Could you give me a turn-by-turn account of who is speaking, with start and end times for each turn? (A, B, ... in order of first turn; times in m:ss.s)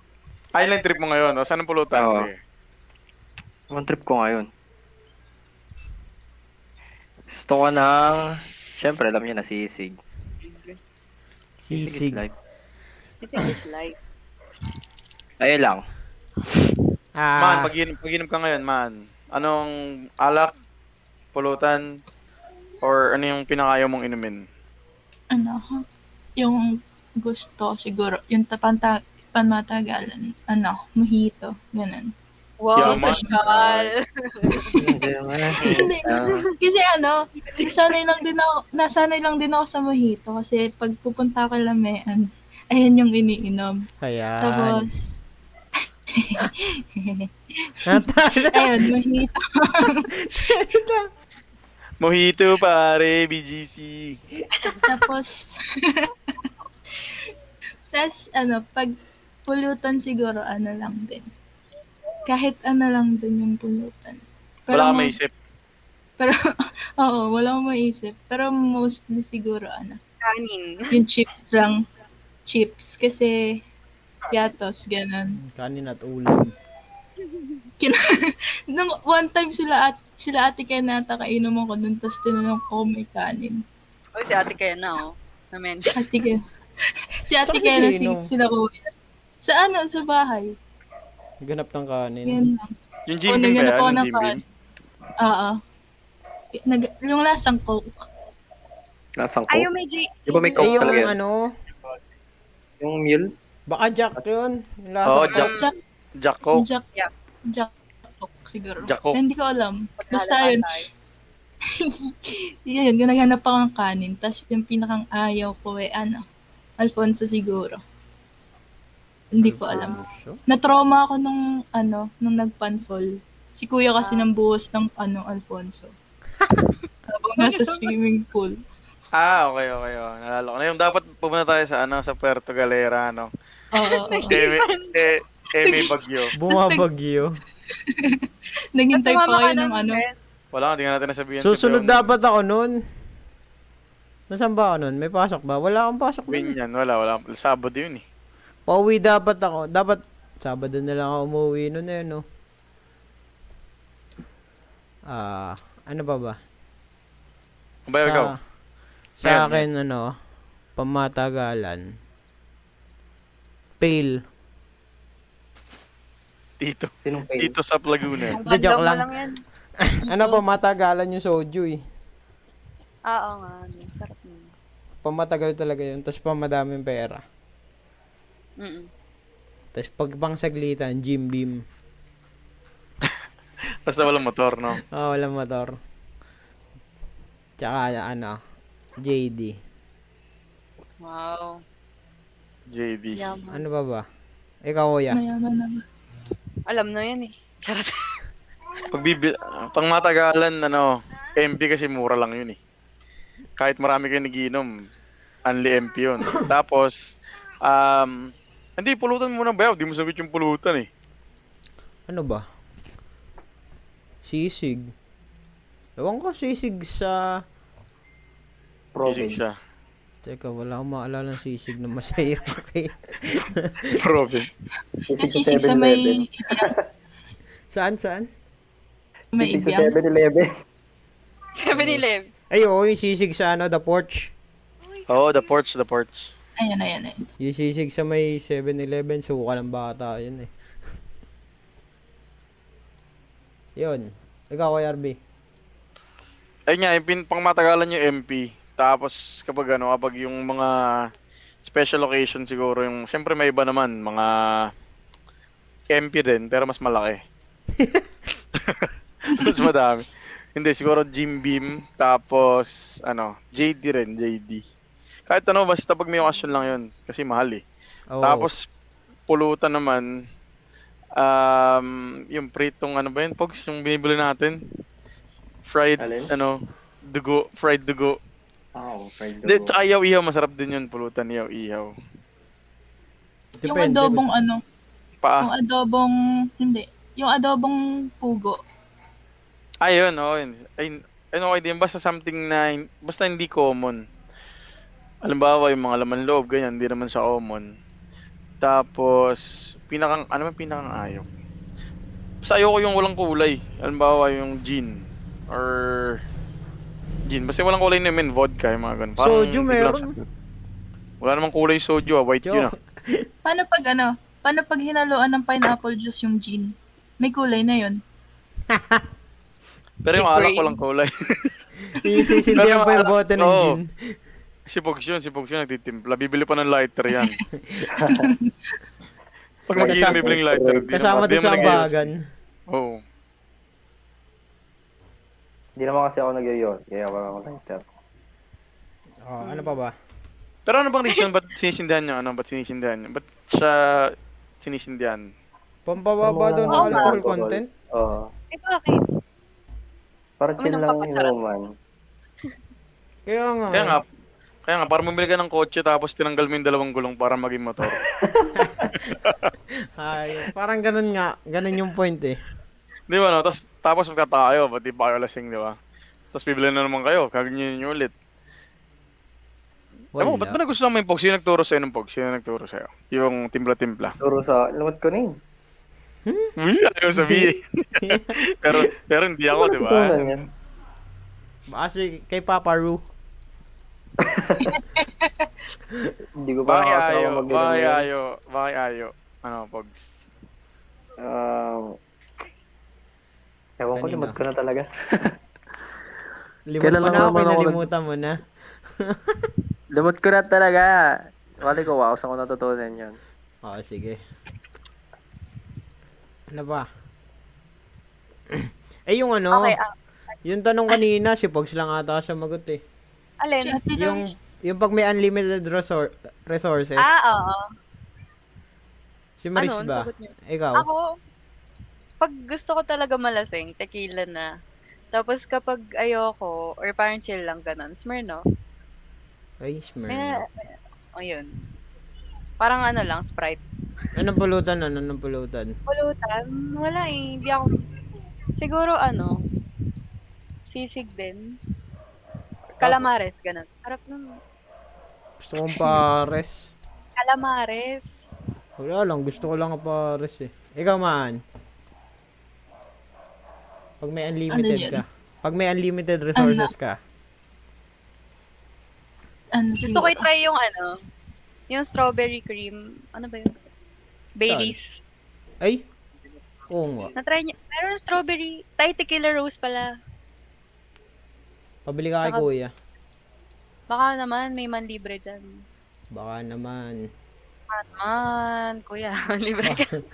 0:00.5-0:02.4 A
0:01.9-0:02.3 B
0:03.7-0:04.5 B
0:07.3-0:10.0 B
0:10.4-0:10.8 C
0:11.6-0:12.2 D
0:11.7-0:12.4 B
0:13.2-0:14.0 C
0:15.4-0:15.8 B
0:17.2-0:17.7 D
0:17.4-0:20.5 A
0:21.3-0:22.0 A
0:22.8-0:24.4 A
0:25.3-0:25.8 E
0:26.4-0:32.1 E
0:32.6-0:35.1 C
0:32.8-0:33.9 A
0:32.8-0:33.3 E
0:34.5-0:36.4 B
0:35.6-0:43.9 E
0:35.8-0:36.5 C
0:44.0-0:44.9 D
0:44.4-0:45.1 E
0:46.1-0:50.7 E
0:47.9-0:48.9 D
0:50.2-0:51.1 D
0:52.0-0:54.2 A
0:54.8-0:56.1 E
0:57.9-0:58.9 E
0:59.5-1:01.3 E
1:02.3-1:05.2 E
1:04.7-1:05.3 A
1:07.0-1:10.0 E
1:10.2-1:11.0 C
1:10.9-1:11.8 E
1:12.4-1:13.6 E
1:14.3-1:15.4 E
1:15.4-1:16.5 D
1:17.8-1:23.6 E
1:24.2-1:26.0 C
1:25.9-1:26.4 E
1:27.3-1:28.9 E
1:27.4-1:28.3 D
1:29.4-1:30.6 E
1:31.4-1:32.4 D
1:32.3-1:32.7 E
1:33.1-1:34.4 A
1:33.3-1:34.4 E
1:35.2-1:35.6 E
1:36.5-1:38.1 E
1:39.2-1:39.7 B
1:39.5-1:41.1 C
1:40.3-1:41.1 B
1:40.6-1:41.5 D
1:42.8-1:43.3 B
1:43.7-1:45.5 D
1:45.0-1:45.6 A
1:45.3-1:45.7 C
1:45.4-1:45.7 E
1:46.2-1:46.7 A
1:46.5-1:46.8 E
1:47.5-1:50.7 E
1:48.8-1:49.2 A
1:50.0-1:50.9 C
1:51.8-1:56.2 E
1:56.8-1:57.8 E
1:59.3-2:05.9 E
1:59.4-2:00.4 D
2:04.0-2:04.3 C
2:07.1-2:08.6 E
2:07.4-2:07.9 C
2:09.1-2:13.3 A
2:13.7-2:14.4 E
2:13.9-2:15.1 C
2:14.3-2:16.3 A
2:15.6-2:15.9 E
2:16.3-2:17.3 D
2:16.4-2:16.8 E
2:17.8-2:18.2 E
2:18.8-2:20.0 E
2:18.9-2:20.1 C
2:20.5-2:22.1 A
2:21.4-2:22.8 D
2:24.3-2:26.6 D
2:26.3-2:28.0 A
2:28.7-2:32.2 D
2:35.1-2:36.4 D
2:37.9-2:38.3 A
2:38.0-2:38.4 D
2:39.2-2:40.1 D
2:39.2-2:39.6 A
2:40.8-2:41.9 D
2:43.8-2:44.2 D
2:46.6-2:48.4 A
2:47.0-2:47.6 B
2:48.4-2:49.4 C
2:48.4-2:49.1 D
2:49.8-2:51.8 D
2:50.1-2:50.4 E
2:53.1-2:54.5 C
2:55.0-2:57.2 D
2:58.6-2:58.9 C
2:59.7-3:01.6 D
3:03.9-3:04.8 A
3:04.9-3:05.8 D
3:07.6-3:08.4 D
3:09.0-3:09.6 D
3:11.0-3:11.6 C
3:12.7-3:13.2 A
3:13.1-3:13.6 C
3:13.5-3:14.0 D
3:14.6-3:15.2 D
3:15.1-3:15.8 E
3:16.7-3:18.2 C
3:18.9-3:22.6 A
3:23.6-3:24.8 A
3:25.4-3:30.9 A
3:32.1-3:32.4 D
3:34.2-3:34.9 D
3:36.0-3:37.3 D
3:39.0-3:39.4 B
3:39.0-3:39.5 A
3:40.2-3:44.0 D
3:43.9-3:44.5 A
3:45.1-3:46.8 B
3:45.2-3:46.7 E
3:47.7-3:48.3 D
3:49.3-3:50.0 E
3:49.4-3:50.5 B
3:51.6-3:52.3 C
3:52.5-3:54.3 D
3:55.1-3:56.3 A
3:56.6-3:57.2 E
3:57.4-4:00.5 D
4:03.8-4:05.2 D
4:06.7-4:11.1 A
4:11.6-4:14.7 A
4:15.9-4:17.2 A
4:17.8-4:18.1 D
4:18.6-4:24.6 A
4:25.3-4:27.6 A
4:28.1-4:28.5 D
4:28.2-4:28.6 A
4:29.3-4:30.1 A
4:31.2-4:34.6 A
4:35.7-4:38.2 A
4:36.0-4:36.3 B
4:38.8-4:39.8 B
4:39.4-4:41.9 A
4:43.6-4:44.2 D
4:43.6-4:44.6 E
4:45.2-4:45.5 A
4:45.4-4:48.6 E
4:49.8-4:54.0 A
4:55.2-4:57.8 A
4:58.6-5:01.3 A
5:02.4-5:06.2 A
5:07.3-5:10.1 A
5:09.2-5:10.1 D
5:11.2-5:12.7 A
5:12.4-5:13.3 D
5:13.4-5:18.0 E
5:18.7-5:19.0 D
5:20.0-5:21.6 A
5:20.1-5:20.8 C
5:22.0-5:24.2 D
5:22.0-5:22.5 E
5:22.6-5:23.8 A
5:24.7-5:27.4 A
5:27.9-5:28.3 B
5:28.1-5:28.5 E
5:29.7-5:32.0 A
5:29.8-5:30.9 B
5:29.8-5:30.4 D
5:30.9-5:32.2 D
5:32.7-5:33.0 A
5:35.8-5:37.8 B
5:39.3-5:39.9 D
5:39.4-5:39.8 C
5:40.7-5:45.3 A
5:45.9-5:47.7 D
5:46.2-5:48.3 B
5:46.7-5:47.2 C
5:48.5-5:49.0 C
5:50.4-5:51.7 B
5:50.6-5:51.3 C
5:53.3-5:54.0 D
5:53.7-5:54.0 A
5:54.7-5:58.0 A
5:58.4-5:59.0 D
5:59.1-5:59.5 A
6:00.0-6:02.4 D
6:03.1-6:05.8 A
6:06.3-6:08.1 A
6:10.1-6:10.6 D
6:10.2-6:14.2 A
6:14.2-6:15.4 B
6:16.3-6:16.5 D
6:16.6-6:20.2 A
6:17.1-6:17.5 D
6:18.0-6:18.8 D
6:19.5-6:20.4 B
6:21.7-6:23.0 D
6:24.2-6:24.8 B
6:24.7-6:25.5 E
6:26.4-6:28.1 B
6:26.7-6:30.2 A
6:31.2-6:32.0 B
6:33.8-6:35.4 B
6:34.0-6:34.4 D
6:36.7-6:38.4 D
6:36.8-6:37.9 B
6:39.0-6:39.5 D
6:40.0-6:43.2 B
6:43.6-6:44.2 D
6:46.5-6:46.9 D
6:48.5-6:49.8 D
6:49.5-6:49.9 C
6:50.4-6:52.8 D
6:53.4-6:53.8 C
6:53.6-6:54.2 E
6:54.0-6:57.2 D
6:57.0-6:57.6 C
6:59.4-7:00.9 D
6:59.6-7:01.1 C
7:02.2-7:04.5 C
7:05.1-7:08.4 C
7:09.6-7:10.4 D
7:10.1-7:11.5 C
7:12.6-7:13.6 C
7:14.1-7:15.8 D
7:15.9-7:17.8 C
7:18.6-7:19.4 C
7:20.7-7:21.6 C
7:22.7-7:23.1 B
7:22.8-7:24.4 C
7:25.4-7:26.7 D
7:27.2-7:28.2 C
7:28.8-7:31.4 D
7:34.0-7:37.0 D
7:34.5-7:35.0 E
7:36.4-7:36.7 E
7:39.6-7:40.3 E
7:39.8-7:41.0 C
7:41.7-7:43.5 C
7:44.4-7:45.0 C
7:44.4-7:44.8 D
7:45.6-7:45.9 D
7:46.7-7:47.1 D
7:47.1-7:50.0 C
7:51.9-7:52.7 D
7:53.9-7:55.6 C
7:56.1-7:57.1 D
7:57.7-7:59.9 C